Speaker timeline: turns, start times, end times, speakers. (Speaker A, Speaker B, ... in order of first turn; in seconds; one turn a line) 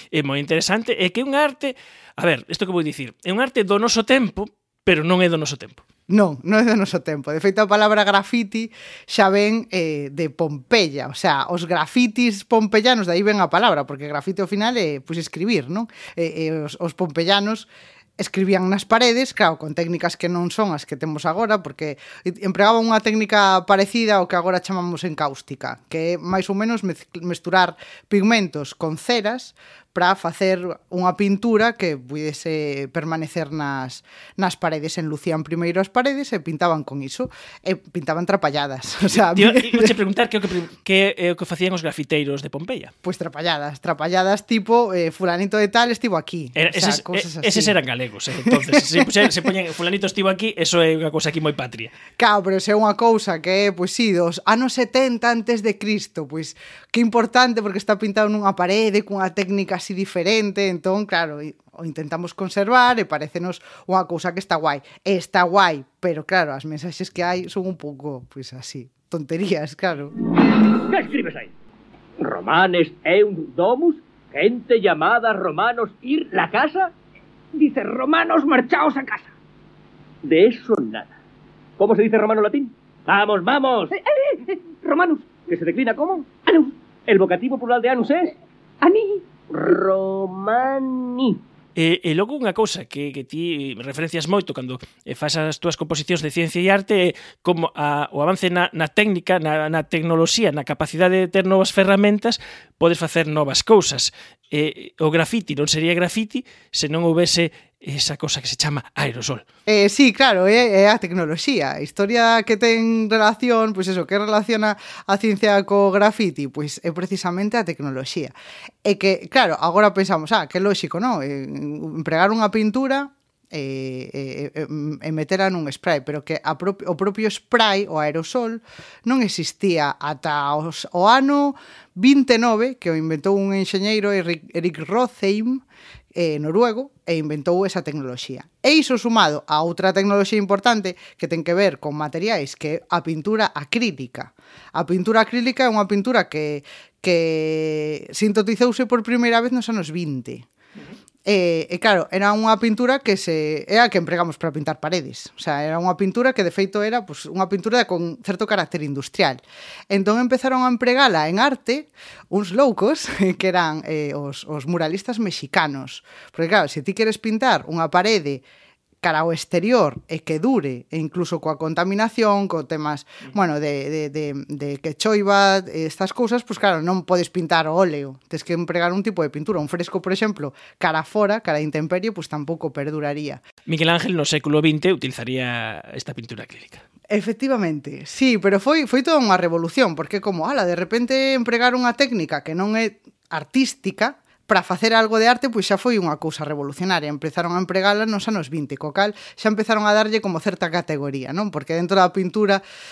Speaker A: 0.1-5.8
Speaker B: 6.1-40.0
Speaker A: 39.3-42.9
Speaker B: 43.0-47.7
Speaker A: 46.5-51.9
Speaker B: 48.5-49.1
Speaker B: 52.2-70.1
Speaker C: 70.9-71.5
Speaker C: 72.2-76.9
Speaker C: 77.5-79.3
Speaker C: 80.2-81.1
Speaker C: 81.8-84.0
Speaker C: 84.8-91.4
Speaker A: 91.8-109.4
Speaker B: 109.7-150.5
Speaker B: 151.2-168.4
Speaker B: 169.0-183.4
Speaker A: 183.7-186.8
Speaker B: 187.1-202.6